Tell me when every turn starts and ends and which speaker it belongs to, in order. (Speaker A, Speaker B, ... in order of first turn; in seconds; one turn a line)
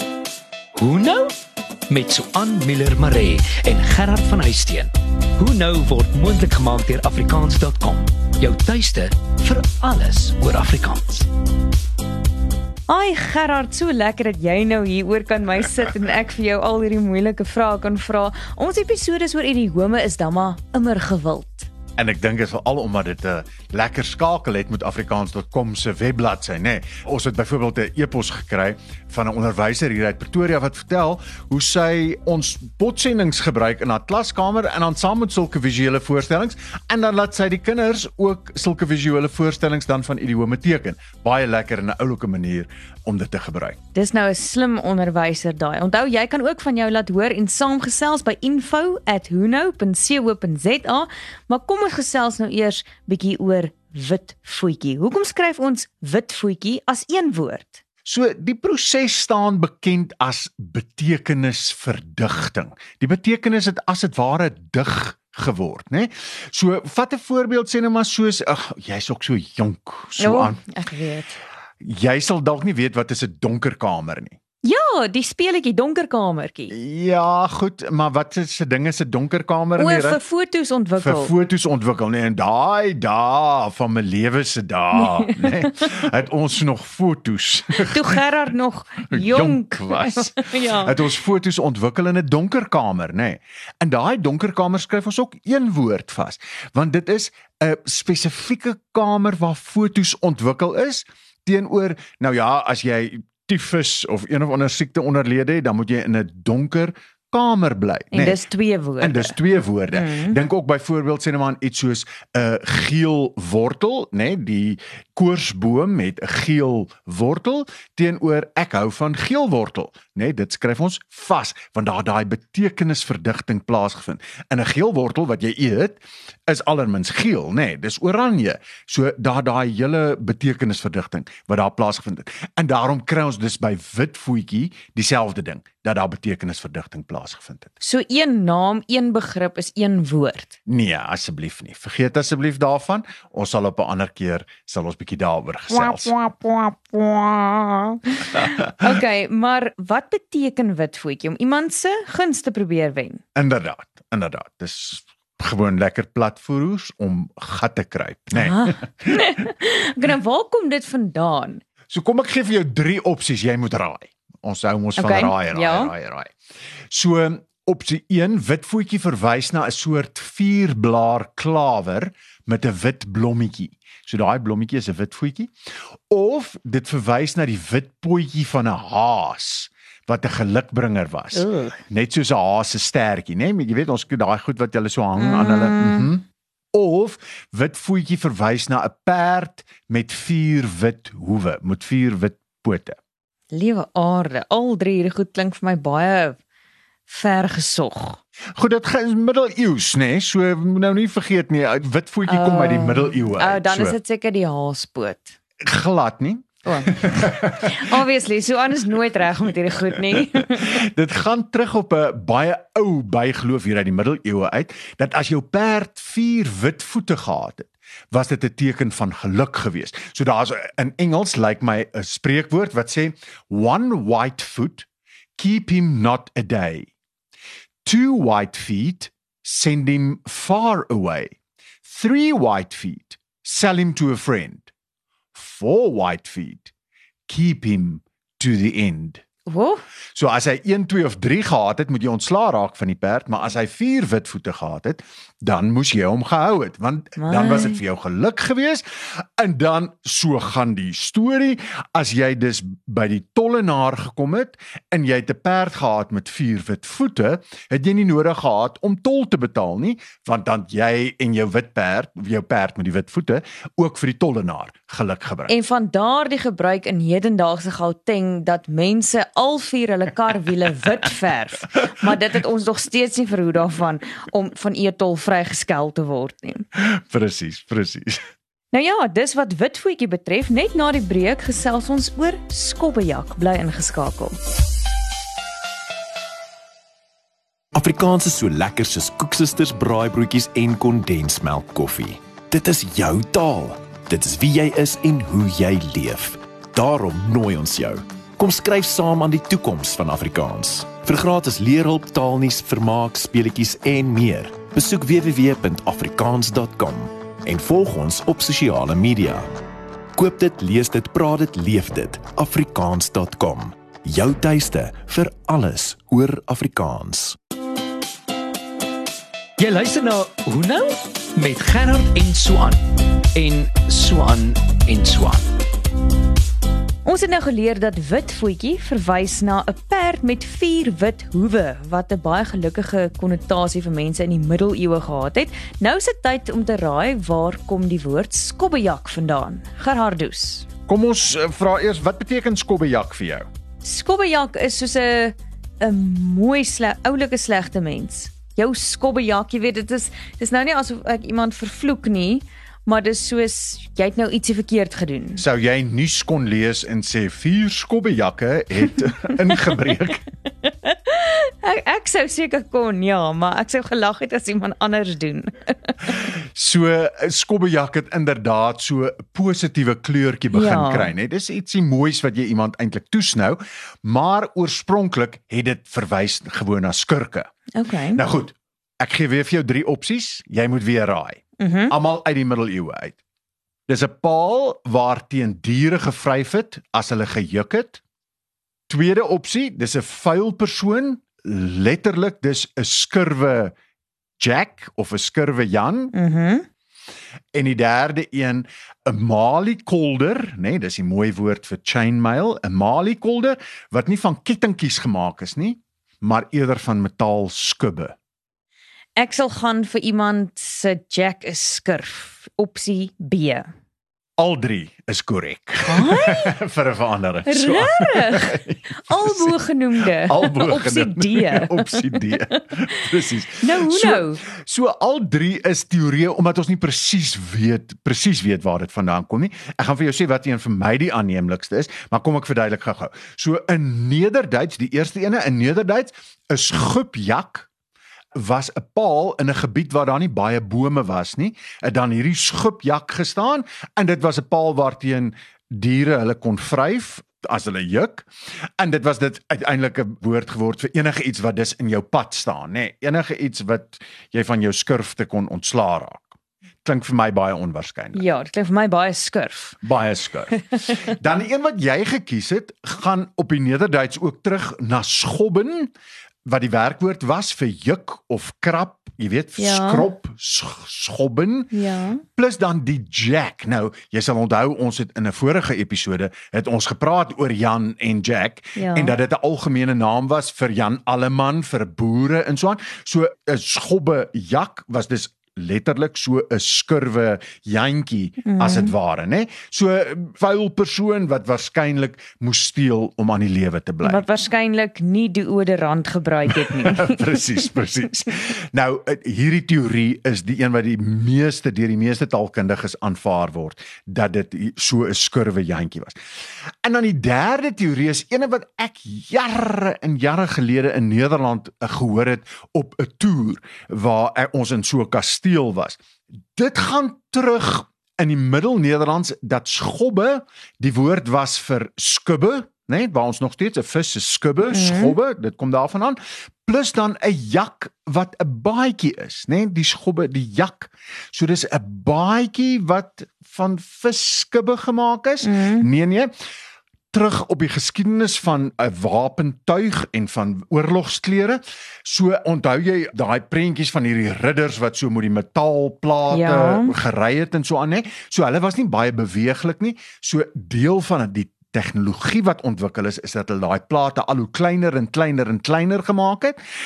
Speaker A: 0.8-1.3
Speaker A: 1.9-11.3
Speaker B: 12.9-21.7
Speaker C: 22.0-43.8
Speaker B: 43.9-57.8
Speaker C: 58.0-70.6
Speaker B: 70.2-71.4
Speaker C: 71.8-74.3
Speaker B: 74.6-76.7
Speaker C: 76.7-80.2
Speaker B: 79.8-81.3
Speaker C: 81.0-88.2
Speaker B: 85.0-85.4
Speaker B: 87.8-91.0
Speaker C: 89.1-108.4
Speaker B: 108.1-109.3
Speaker C: 109.0-137.7
Speaker B: 109.9-110.4
Speaker B: 137.8-140.5
Speaker C: 140.7-146.1
Speaker B: 145.7-153.2
Speaker C: 153.3-159.2
Speaker B: 158.3-161.6
Speaker C: 161.9-166.3
Speaker B: 165.0-165.9
Speaker C: 166.9-175.5
Speaker C: 176.1-193.0
Speaker B: 181.3-181.8
Speaker B: 185.2-186.1
Speaker B: 193.5-196.4
Speaker B: 197.1-198.2
Speaker C: 198.6-204.0
Speaker B: 202.2-205.4
Speaker C: 205.6-207.8
Speaker B: 206.6-210.8
Speaker C: 210.4-224.9
Speaker C: 225.4-226.9
Speaker C: 227.8-234.7
Speaker C: 235.3-236.7
Speaker C: 237.3-239.2
Speaker B: 239.4-239.8
Speaker C: 240.1-265.5
Speaker B: 247.2-247.8
Speaker B: 265.5-276.6
Speaker C: 276.7-278.2
Speaker B: 278.7-284.4
Speaker D: 287.7-309.5
Speaker D: 310.1-317.4
Speaker A: 319.6-322.8
Speaker A: 323.3-325.5
Speaker B: 327.0-340.6
Speaker C: 340.9-343.4
Speaker B: 343.8-355.4
Speaker C: 355.4-360.2
Speaker B: 360.6-366.2
Speaker C: 366.3-377.5
Speaker B: 370.5-371.1
Speaker B: 377.7-378.2
Speaker C: 378.1-383.2
Speaker B: 381.6-381.9
Speaker C: 383.9-388.0
Speaker C: 388.9-393.7
Speaker C: 394.4-396.1
Speaker B: 396.1-396.6
Speaker C: 397.5-408.1
Speaker B: 409.2-413.7
Speaker C: 414.4-419.6
Speaker B: 415.8-416.5
Speaker B: 417.4-422.3
Speaker C: 420.2-437.7
Speaker B: 423.6-424.4
Speaker C: 438.3-456.3
Speaker C: 456.8-458.2
Speaker B: 458.1-459.8
Speaker C: 459.8-465.9
Speaker C: 466.4-471.7
Speaker B: 469.6-470.1
Speaker B: 471.7-472.2
Speaker C: 472.4-494.2
Speaker B: 478.8-479.1
Speaker B: 488.4-488.9
Speaker B: 494.0-497.4
Speaker C: 496.5-506.1
Speaker C: 506.8-516.0
Speaker C: 516.5-536.3
Speaker B: 524.7-525.2
Speaker B: 535.4-535.9
Speaker C: 537.1-556.6
Speaker B: 546.3-546.9